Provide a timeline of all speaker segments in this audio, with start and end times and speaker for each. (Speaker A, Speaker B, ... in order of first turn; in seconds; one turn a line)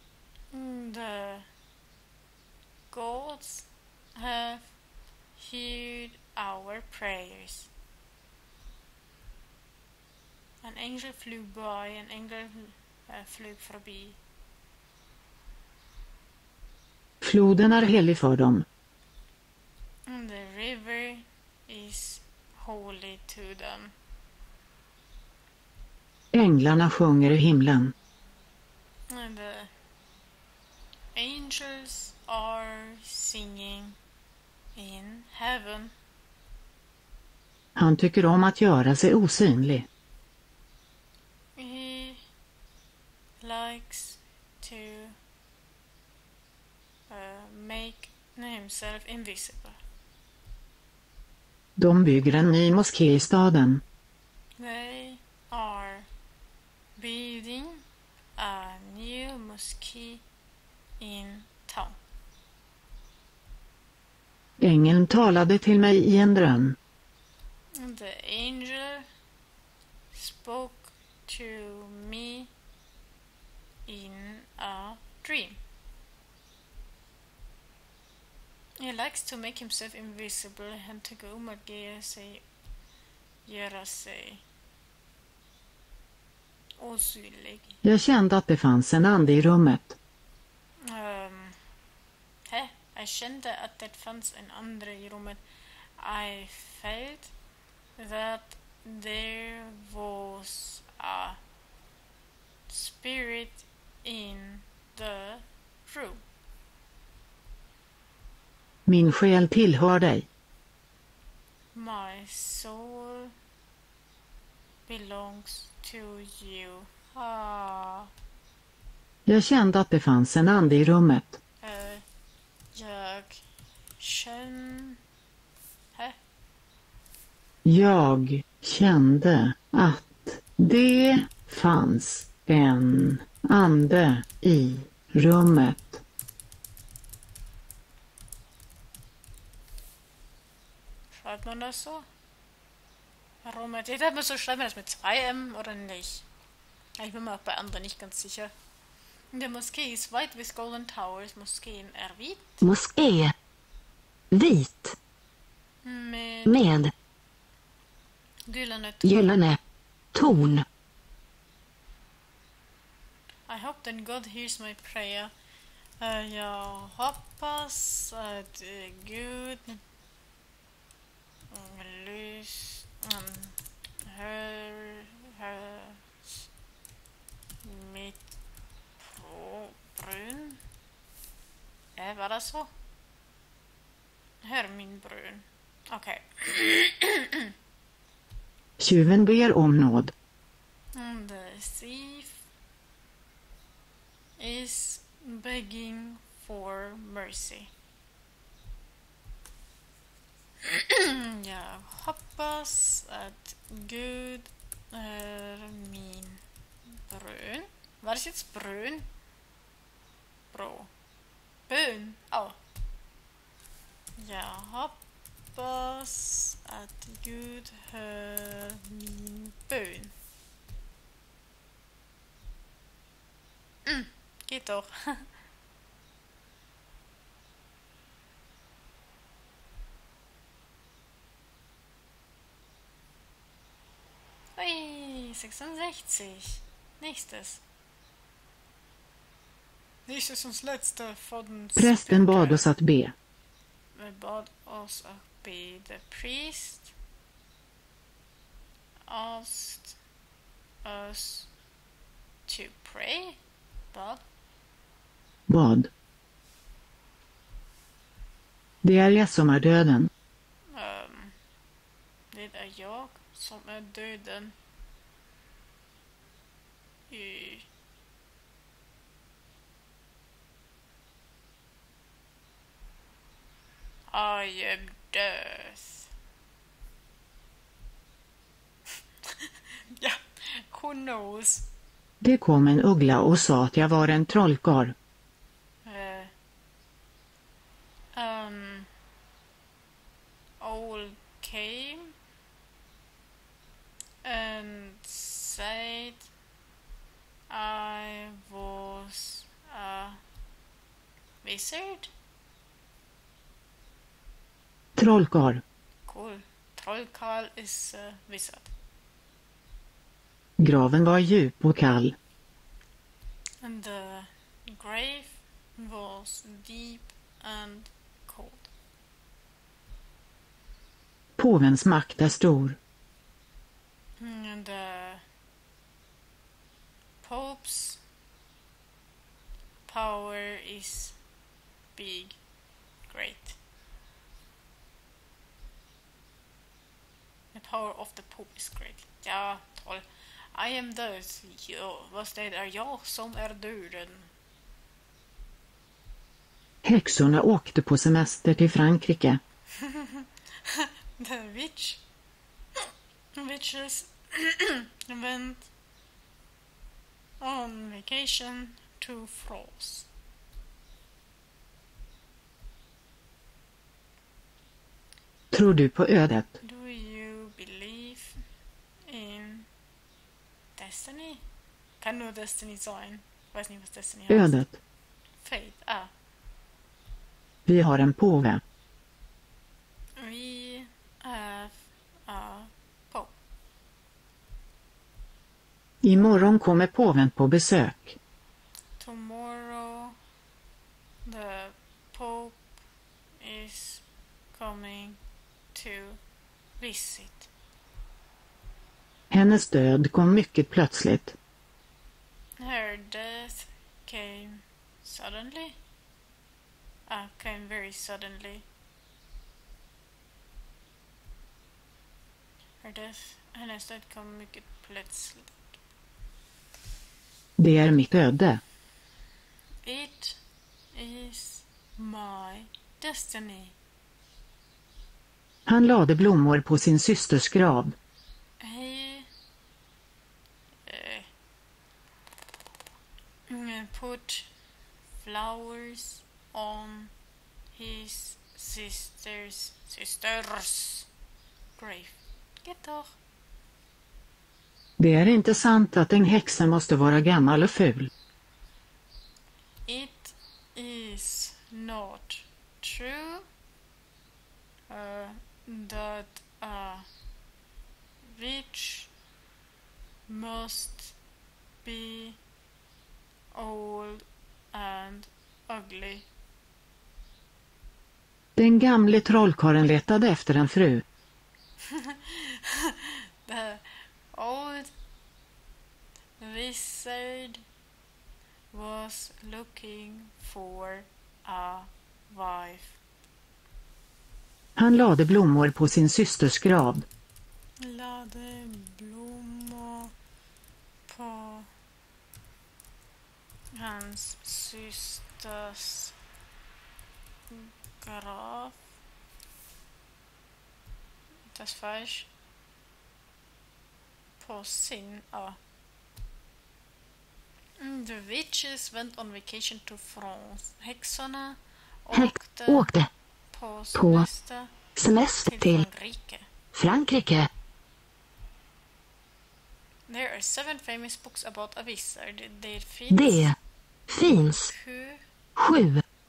Speaker A: 0.5-1.5
Speaker A: 2.9-4.7
Speaker A: 5.4-7.7
Speaker A: 10.6-14.2
Speaker B: 17.2-18.6
Speaker A: 20.1-23.9
Speaker B: 26.3-27.9
Speaker A: 29.1-29.7
Speaker A: 31.1-34.0
Speaker A: 34.8-35.9
Speaker B: 37.8-39.9
Speaker A: 41.6-42.2
Speaker A: 43.4-45.1
Speaker A: 47.1-49.8
Speaker B: 51.8-53.8
Speaker A: 54.6-56.1
Speaker A: 57.0-57.8
Speaker A: 58.4-60.2
Speaker A: 61.0-62.0
Speaker B: 64.6-66.8
Speaker A: 67.8-69.1
Speaker A: 70.1-72.5
Speaker A: 73.9-75.6
Speaker A: 78.8-82.4
Speaker A: 83.5-84.4
Speaker A: 86.8-87.8
Speaker B: 87.8-90.0
Speaker A: 90.8-91.6
Speaker A: 92.5-95.4
Speaker A: 96.0-97.3
Speaker A: 98.0-101.4
Speaker A: 102.7-106.2
Speaker B: 108.9-110.3
Speaker A: 111.7-113.3
Speaker A: 114.9-118.1
Speaker B: 119.3-121.4
Speaker A: 121.6-122.0
Speaker A: 122.7-123.4
Speaker A: 124.0-125.0
Speaker B: 127.7-136.0
Speaker A: 141.1-142.1
Speaker A: 143.4-146.3
Speaker A: 147.0-148.5
Speaker A: 149.3-152.6
Speaker C: 152.6-153.3
Speaker C: 154.3-154.9
Speaker A: 155.8-156.7
Speaker C: 156.5-156.9
Speaker A: 158.5-159.4
Speaker C: 159.0-159.6
Speaker C: 160.1-160.7
Speaker A: 163.5-165.3
Speaker A: 166.0-169.8
Speaker A: 171.5-176.1
Speaker A: 177.6-178.2
Speaker A: 179.1-180.6
Speaker A: 182.0-182.7
Speaker A: 184.4-187.5
Speaker B: 188.8-190.1
Speaker A: 190.9-192.4
Speaker A: 194.4-197.7
Speaker A: 200.6-206.4
Speaker A: 207.1-209.1
Speaker A: 210.5-210.9
Speaker A: 211.7-212.6
Speaker A: 214.2-215.0
Speaker A: 215.5-220.1
Speaker A: 223.9-225.3
Speaker A: 234.6-237.6
Speaker A: 240.1-242.7
Speaker B: 241.8-243.1
Speaker A: 243.9-246.9
Speaker A: 249.1-250.0
Speaker A: 250.8-251.5
Speaker A: 252.5-253.4
Speaker A: 253.9-254.2
Speaker B: 255.5-255.9
Speaker B: 258.8-260.1
Speaker A: 260.7-261.4
Speaker A: 262.3-264.6
Speaker A: 267.1-267.7
Speaker A: 274.1-276.1
Speaker A: 279.2-281.7
Speaker B: 282.2-284.9
Speaker A: 285.9-286.3
Speaker A: 288.1-288.9
Speaker A: 290.6-292.1
Speaker A: 294.2-296.3
Speaker A: 297.5-300.2
Speaker A: 301.4-302.1
Speaker B: 305.0-305.6
Speaker A: 306.1-308.7
Speaker B: 310.6-312.1
Speaker A: 313.6-318.7
Speaker B: 321.4-322.8
Speaker A: 324.2-325.2
Speaker A: 327.2-328.0
Speaker A: 329.9-331.2
Speaker A: 331.9-332.4
Speaker A: 333.1-333.6
Speaker A: 337.5-344.3
Speaker B: 346.8-349.4
Speaker A: 349.8-352.0
Speaker A: 353.4-355.7
Speaker A: 357.4-360.1
Speaker B: 365.5-366.6
Speaker A: 366.6-368.4
Speaker A: 369.1-369.7
Speaker A: 370.8-371.4
Speaker A: 372.0-374.6
Speaker B: 374.3-374.7
Speaker A: 375.4-376.1
Speaker B: 377.7-378.6
Speaker A: 380.2-383.3
Speaker B: 386.0-388.2
Speaker A: 389.0-390.2
Speaker A: 391.2-392.6
Speaker A: 393.4-395.2
Speaker A: 395.7-396.2
Speaker A: 396.8-397.5
Speaker B: 399.3-401.4
Speaker A: 402.6-405.8
Speaker A: 407.1-408.6
Speaker A: 412.8-415.6
Speaker B: 417.6-418.6
Speaker A: 419.8-420.4
Speaker A: 420.9-423.7
Speaker B: 425.7-427.9
Speaker A: 428.6-429.3
Speaker A: 430.9-431.3
Speaker A: 433.5-434.5
Speaker A: 435.2-437.1
Speaker A: 437.7-441.1
Speaker A: 441.8-443.1
Speaker B: 445.0-448.1
Speaker A: 449.9-453.5
Speaker A: 454.9-457.1
Speaker A: 458.2-459.1
Speaker A: 460.3-461.1
Speaker A: 461.8-462.4
Speaker A: 463.5-466.3
Speaker B: 468.6-471.0
Speaker A: 471.9-474.9
Speaker A: 476.4-477.6
Speaker A: 478.7-483.0
Speaker B: 484.8-487.1
Speaker A: 487.8-490.1
Speaker A: 491.1-491.7
Speaker A: 493.8-496.2
Speaker A: 497.5-498.8
Speaker A: 501.5-502.3
Speaker A: 504.4-505.6
Speaker A: 507.8-512.9
Speaker C: 512.1-513.1
Speaker A: 513.5-514.8
Speaker C: 514.0-514.3
Speaker C: 515.0-515.9
Speaker A: 515.3-516.5
Speaker C: 516.7-517.5
Speaker A: 520.1-523.5
Speaker C: 523.1-523.6
Speaker C: 524.1-524.7
Speaker A: 524.6-525.2
Speaker C: 525.6-526.0